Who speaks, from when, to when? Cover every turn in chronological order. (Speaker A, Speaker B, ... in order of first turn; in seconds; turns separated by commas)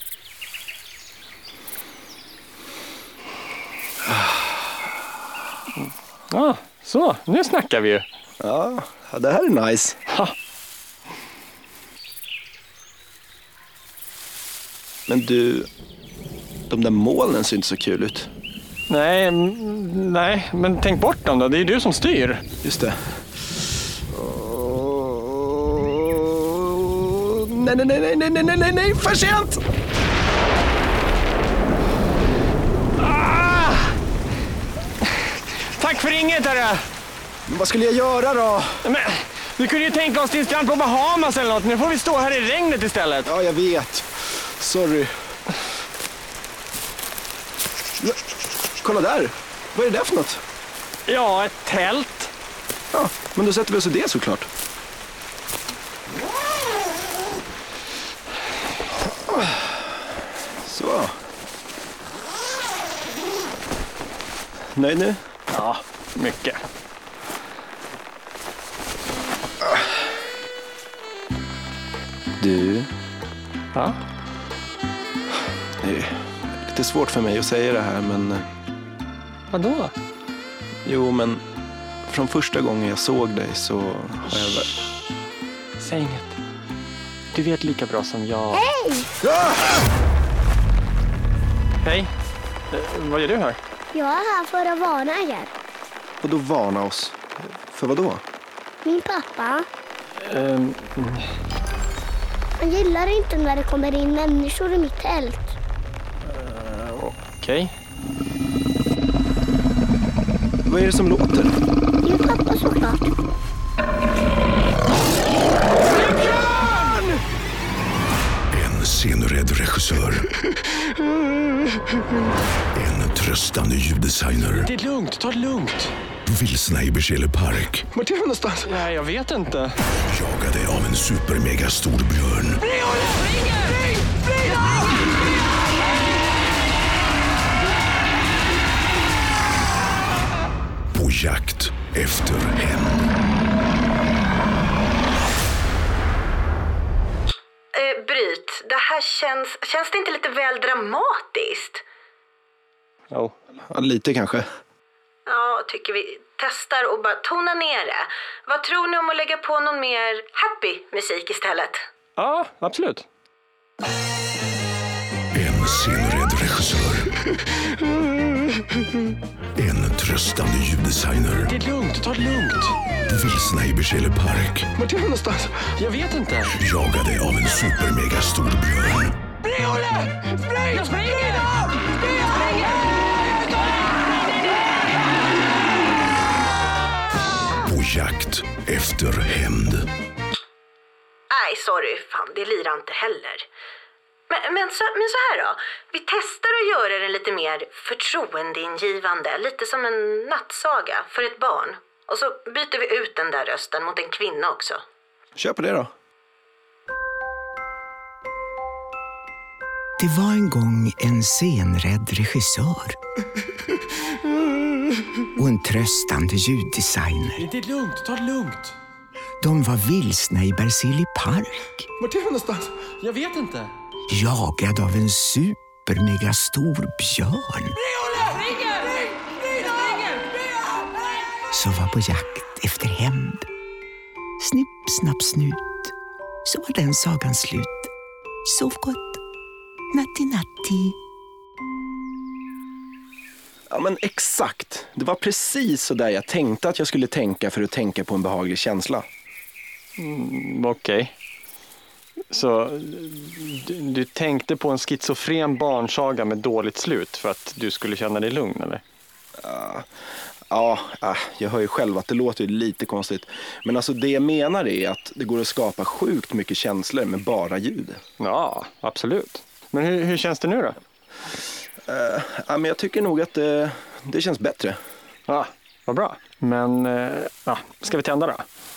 Speaker A: 4.0-4.5, Speaker B: 6.3-8.0, Speaker A: 8.4-10.0, Speaker A: 15.1-15.7, Speaker A: 16.7-18.3, Speaker B: 18.9-22.4, Speaker A: 22.6-22.9, Speaker A: 24.1-29.6, Speaker B: 33.0-33.9, Speaker B: 35.3-36.8, Speaker A: 37.5-38.8, Speaker B: 38.8-43.3, Speaker A: 43.2-45.1, Speaker A: 48.8-50.4, Speaker B: 51.1-52.3, Speaker A: 52.9-54.5, Speaker A: 59.3-59.7, Speaker A: 60.6-61.1, Speaker A: 64.7-65.2, Speaker B: 65.5-66.6, Speaker A: 72.4-72.9, Speaker B: 73.7-74.0, Speaker A: 75.8-76.1, Speaker A: 76.6-78.4, Speaker B: 79.5-79.9, Speaker A: 80.8-81.4, Speaker A: 82.1-84.7, Speaker B: 85.8-86.3, Speaker B: 87.3-88.6, Speaker C: 88.5-89.1, Speaker A: 89.2-89.7, Speaker B: 91.8-92.1, Speaker B: 92.7-93.6, Speaker C: 93.9-95.5, Speaker A: 96.2-98.2, Speaker C: 98.8-99.7, Speaker B: 100.2-101.2, Speaker C: 102.6-105.5, Speaker B: 106.3-107.7, Speaker A: 110.6-111.6, Speaker C: 112.0-113.1, Speaker D: 118.5-120.3, Speaker D: 122.7-124.7, Speaker B: 124.5-125.9, Speaker D: 126.2-127.8, Speaker A: 127.9-128.8, Speaker B: 128.7-129.8, Speaker D: 130.1-132.6, Speaker D: 140.9-143.1, Speaker E: 147.8-151.8, Speaker A: 153.7-154.4, Speaker E: 155.3-161.8, Speaker B: 162.2-163.0, Speaker D: 165.3-167.1, Speaker D: 169.6-171.5, Speaker B: 171.5-172.8, Speaker D: 173.1-174.7, Speaker A: 174.8-175.6, Speaker B: 175.8-176.6, Speaker D: 176.6-179.2, Speaker B: 180.6-181.5, Speaker D: 187.6-189.9, Speaker E: 191.3-193.4, Speaker E: 194.3-204.8, Speaker A: 205.3-205.9, Speaker F: 210.0-213.0, Speaker F: 215.3-217.5, Speaker B: 217.4-218.7, Speaker F: 219.4-221.9, Speaker A: 222.0-222.7, Speaker B: 223.0-223.7, Speaker F: 224.1-227.8, Speaker F: 231.5-233.5, Speaker F: 234.4-235.9, Speaker F: 236.4-237.9, Speaker F: 238.4-239.2, Speaker F: 239.9-240.9, Speaker A: 243.7-249.1, Speaker B: 250.0-251.1, Speaker B: 252.3-258.8, Speaker A: 259.4-259.9, Speaker A: 260.5-268.0, Speaker B: 268.2-270.8, Speaker A: 271.9-274.8, Speaker B: 275.3-278.4